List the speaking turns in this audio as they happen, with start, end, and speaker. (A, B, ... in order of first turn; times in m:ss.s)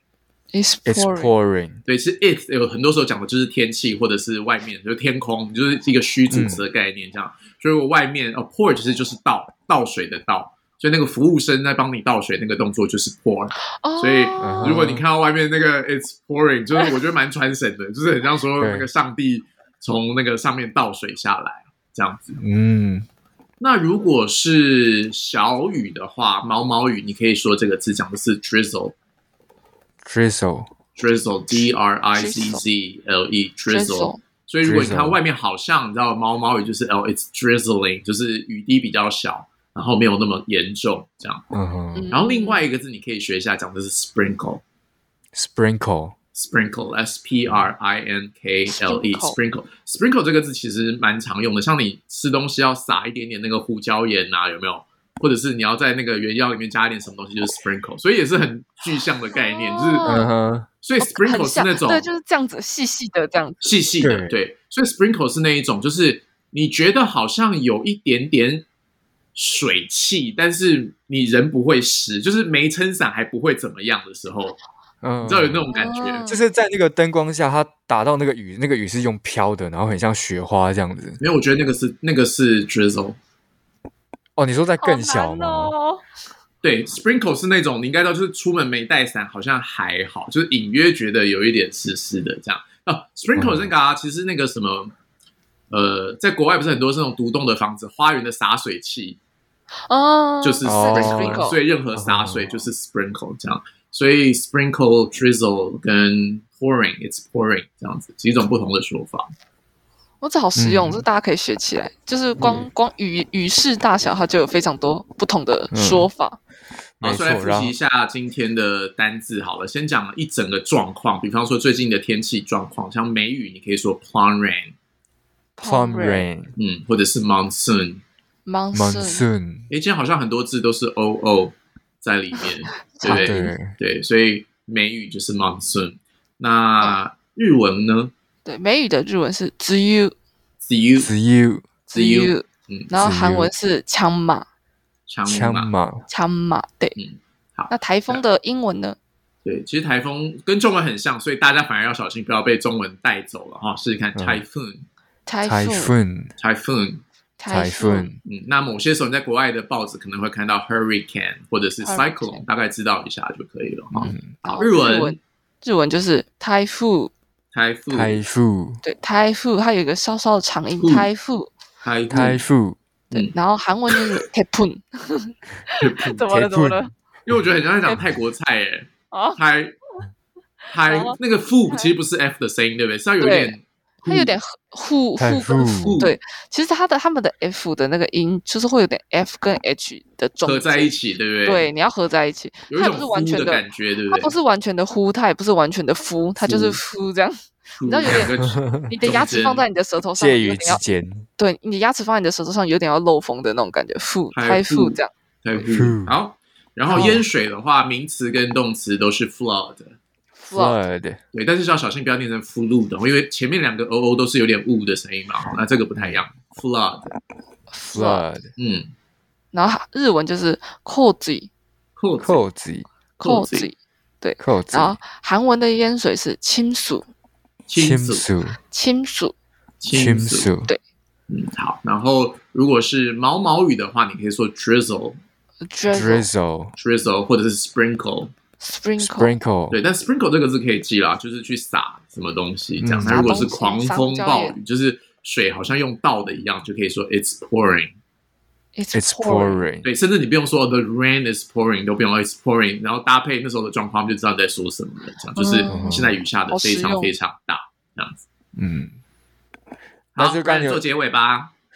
0:00.5-0:01.3 A
0:00.8-0:01.8 B
0:01.9-0:22.4 C
0:06.3-0:06.6 B
0:13.8-0:14.8 A
0:14.4-0:15.0 B
0:18.6-0:18.9 B
0:22.4-0:23.1 B
0:23.6-0:28.9 C
0:30.0-0:30.7 B
0:31.0-0:41.4 C
0:32.2-0:32.6 A
0:33.7-0:34.2 A
0:34.6-0:35.2 B
0:41.5-0:42.1 B
0:41.9-0:42.6 A
0:42.1-0:44.6 C
0:45.3-0:46.1 B
0:46.3-1:00.1 C
0:48.7-0:49.4 A
0:59.3-1:00.3 A
1:00.0-1:00.7 B
1:00.8-1:02.1 C
1:01.0-1:03.7 A
1:03.6-1:08.6 C
1:04.0-1:04.3 B
1:09.3-1:14.6 C
1:15.0-1:15.6 B
1:15.2-1:16.2 C
1:15.7-1:16.4 A
1:16.3-1:21.2 B
1:21.2-1:23.2 C
1:24.4-1:25.7 B
1:24.8-1:26.0 A
1:26.6-1:34.9 C
1:33.3-1:33.7 B
1:35.7-1:39.2 C
1:39.9-1:41.6 A
1:40.4-1:49.3 C
1:40.6-1:42.5 B
1:50.2-1:56.4 A
1:50.6-1:51.0 B
1:55.7-1:56.1 B
1:57.0-1:57.7 B
1:57.0-2:04.7 C
2:05.6-2:06.3 A
2:05.6-2:06.5 B
2:06.6-2:08.0 C
2:08.4-2:09.2 A
2:08.7-2:09.7 B
2:09.7-2:18.1 C
2:12.9-2:13.5 A
2:13.0-2:13.8 B
2:18.4-2:20.1 A
2:20.6-2:21.1 C
2:21.0-2:21.7 B
2:21.9-2:24.4 A
2:21.9-2:22.9 C
2:22.9-2:23.5 B
2:25.1-2:25.7 C
2:25.2-2:26.0 B
2:26.1-2:27.0 A
2:27.0-2:28.2 C
2:27.7-2:29.0 A
2:29.4-2:34.9 C
2:34.1-2:34.4 B
2:35.2-2:35.9 A
2:35.4-2:36.3 B
2:36.4-2:37.0 C
2:37.4-2:38.1 A
2:37.5-2:38.2 B
2:38.2-2:45.2 C
2:41.8-2:42.4 A
2:44.0-2:44.3 B
2:44.0-2:47.1 A
2:47.5-2:48.2 C
2:47.9-2:48.8 B
2:48.8-2:51.5 A
2:50.8-2:51.1 C
2:51.8-2:52.4 C
2:52.1-2:52.8 B
2:53.1-2:56.9 A
2:55.8-2:56.2 C
2:56.2-2:57.4 B
2:57.2-2:59.8 C
2:59.1-2:59.4 A
3:00.7-3:04.3 C
3:00.8-3:01.2 A
3:03.2-3:10.9 A
3:05.2-3:06.0 B
3:05.8-3:06.2 C
3:10.4-3:11.7 C
3:11.4-3:18.3 A
3:12.7-3:14.3 C
3:16.4-3:16.8 C
3:17.8-3:19.6 C
3:18.1-3:18.9 B
3:18.9-3:20.8 A
3:20.2-3:21.3 B
3:21.4-3:25.1 A
3:24.3-3:30.0 C
3:25.6-3:26.1 B
3:26.9-3:27.2 B
3:30.4-3:30.8 A
3:30.5-3:31.2 B
3:31.3-3:37.2 C
3:36.0-3:36.2 B
3:37.7-3:38.2 A
3:37.9-3:38.5 B
3:38.6-3:38.9 C
3:39.5-3:41.5 A
3:42.0-3:42.4 C
3:42.2-3:42.9 B
3:43.2-3:47.1 A
3:43.2-3:43.7 C
3:44.4-3:45.0 B
3:47.7-3:48.3 C
3:47.7-3:48.6 B
3:48.7-3:49.3 A
3:49.8-3:50.5 C
3:49.9-3:50.7 B
3:51.3-3:55.2 C
3:55.7-3:56.3 A
3:55.9-3:56.7 B
3:56.8-3:58.3 C
3:58.6-3:59.3 A
3:59.0-3:59.8 B
3:59.7-4:08.0 C
4:02.8-4:03.3 B
4:03.0-4:04.5 A
4:08.8-4:09.6 A
4:08.9-4:09.9 B
4:09.8-4:18.2 C
4:15.4-4:17.1 A
4:15.7-4:16.2 B
4:18.6-4:18.9 B
4:20.1-4:21.5 C
4:20.2-4:20.8 B